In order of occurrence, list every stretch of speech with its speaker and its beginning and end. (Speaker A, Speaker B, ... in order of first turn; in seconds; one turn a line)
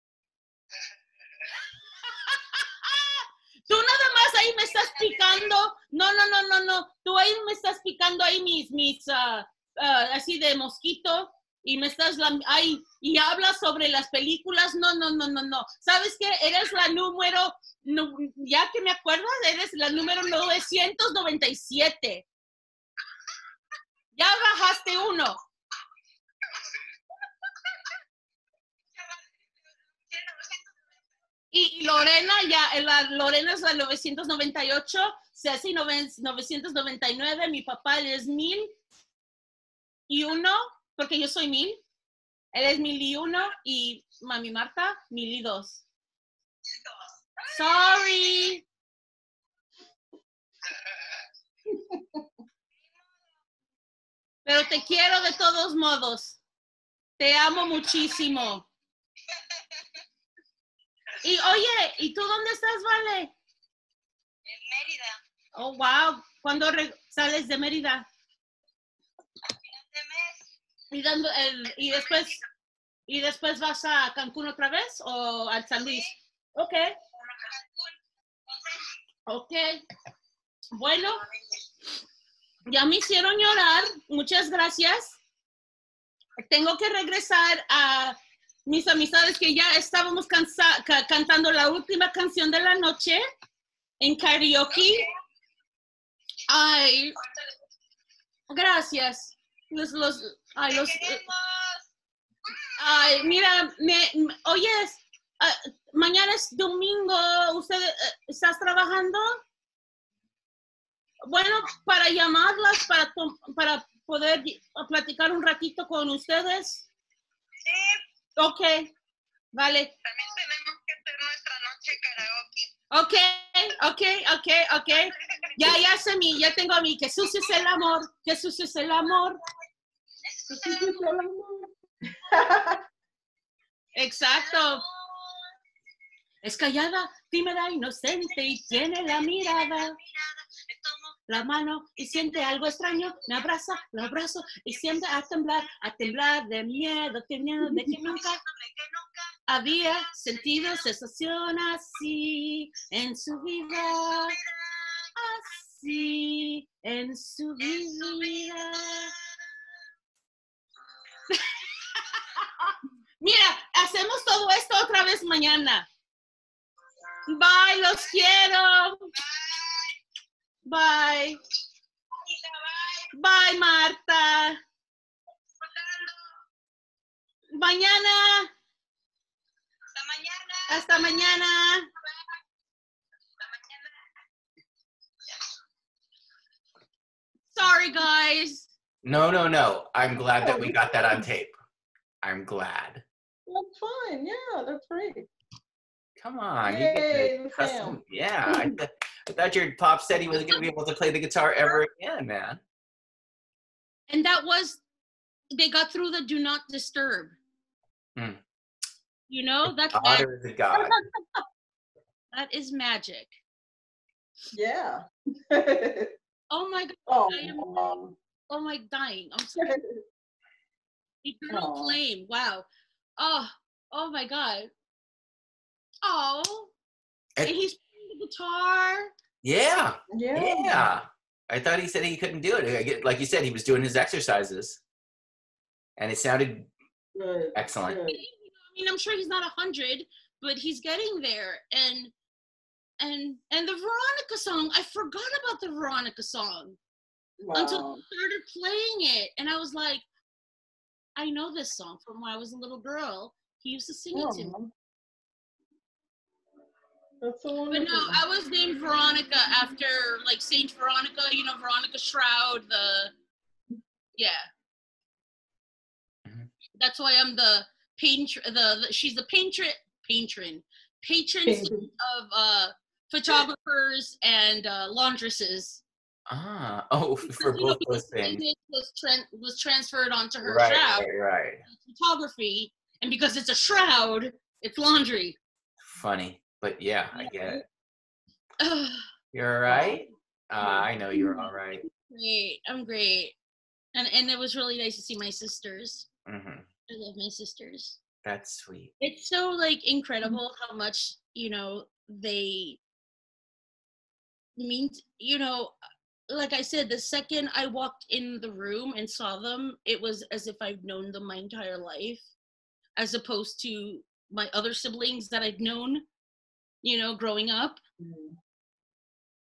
Speaker A: 2.0-22.2
Speaker A: 24.1-25.4
Speaker B: 30.1-30.6
Speaker A: 31.5-38.7
Speaker A: 40.1-41.8
Speaker A: 42.5-45.8
Speaker B: 47.4-48.2
Speaker A: 47.5-48.6
Speaker A: 54.4-56.4
Speaker A: 57.2-58.7
Speaker A: 61.2-63.3
Speaker B: 64.5-65.2
Speaker A: 65.5-68.0
Speaker B: 69.6-70.4
Speaker A: 70.9-72.4
Speaker A: 73.1-76.9
Speaker B: 77.3-77.9
Speaker B: 78.5-78.9
Speaker A: 79.3-79.8
Speaker A: 80.7-81.2
Speaker A: 82.7-85.2
Speaker A: 86.4-93.2
Speaker A: 94.0-95.0
Speaker A: 96.5-97.2
Speaker A: 98.5-101.2
Speaker B: 100.7-101.8
Speaker A: 102.8-109.3
Speaker A: 111.2-116.9
Speaker B: 117.7-118.0
Speaker A: 118.3-118.9
Speaker A: 119.5-119.9
Speaker B: 120.0-122.7
Speaker A: 122.9-129.4
Speaker B: 130.3-131.1
Speaker C: 130.5-131.7
Speaker C: 132.3-132.8
Speaker A: 133.9-134.8
Speaker B: 134.4-135.4
Speaker A: 136.4-139.9
Speaker B: 139.0-141.1
Speaker A: 141.3-148.4
Speaker B: 148.0-149.0
Speaker A: 149.5-154.3
Speaker B: 150.4-150.7
Speaker B: 153.8-154.4
Speaker A: 155.1-159.1
Speaker B: 157.6-159.0
Speaker A: 161.3-165.8
Speaker A: 167.3-169.0
Speaker B: 169.3-169.8
Speaker A: 170.7-171.4
Speaker B: 172.2-173.1
Speaker A: 173.1-174.6
Speaker B: 175.6-176.2
Speaker A: 177.6-178.5
Speaker B: 179.9-180.8
Speaker A: 180.7-181.8
Speaker A: 187.5-188.7
Speaker D: 189.0-191.5
Speaker C: 190.4-191.2
Speaker D: 192.2-193.0
Speaker C: 193.4-195.3
Speaker D: 196.2-202.6
Speaker C: 196.6-198.7
Speaker A: 204.1-204.8
Speaker A: 205.5-207.3
Speaker A: 209.3-211.0
Speaker D: 209.6-210.9
Speaker A: 212.3-213.4
Speaker C: 214.5-216.1
Speaker A: 216.5-217.9
Speaker C: 217.1-218.1
Speaker A: 218.5-219.7
Speaker A: 221.2-222.7
Speaker C: 221.5-222.0
Speaker A: 223.2-224.7
Speaker A: 226.0-226.7
Speaker A: 227.4-229.1
Speaker D: 229.4-234.8
Speaker C: 230.1-230.9
Speaker D: 236.0-236.7
Speaker C: 237.1-238.2
Speaker D: 237.5-238.0
Speaker A: 238.1-242.1
Speaker A: 243.0-246.8
Speaker C: 247.4-248.0
Speaker A: 247.5-250.0
Speaker A: 251.2-254.5
Speaker C: 254.1-254.7
Speaker C: 257.2-258.2
Speaker A: 257.7-263.1
Speaker A: 264.2-264.4
Speaker A: 266.8-275.8
Speaker C: 271.4-271.9
Speaker D: 276.3-278.4
Speaker A: 277.2-281.1
Speaker D: 280.4-281.6
Speaker A: 281.7-285.4
Speaker D: 285.9-287.6
Speaker A: 287.1-287.6
Speaker A: 288.6-289.0
Speaker D: 289.3-291.8
Speaker A: 289.7-290.0
Speaker A: 290.6-293.3
Speaker A: 293.9-296.1
Speaker D: 296.2-296.6
Speaker A: 296.9-298.0
Speaker D: 298.2-298.9
Speaker A: 299.0-302.8
Speaker A: 304.6-305.7
Speaker A: 306.3-312.3
Speaker A: 313.0-316.0
Speaker A: 316.8-317.8
Speaker C: 318.0-318.3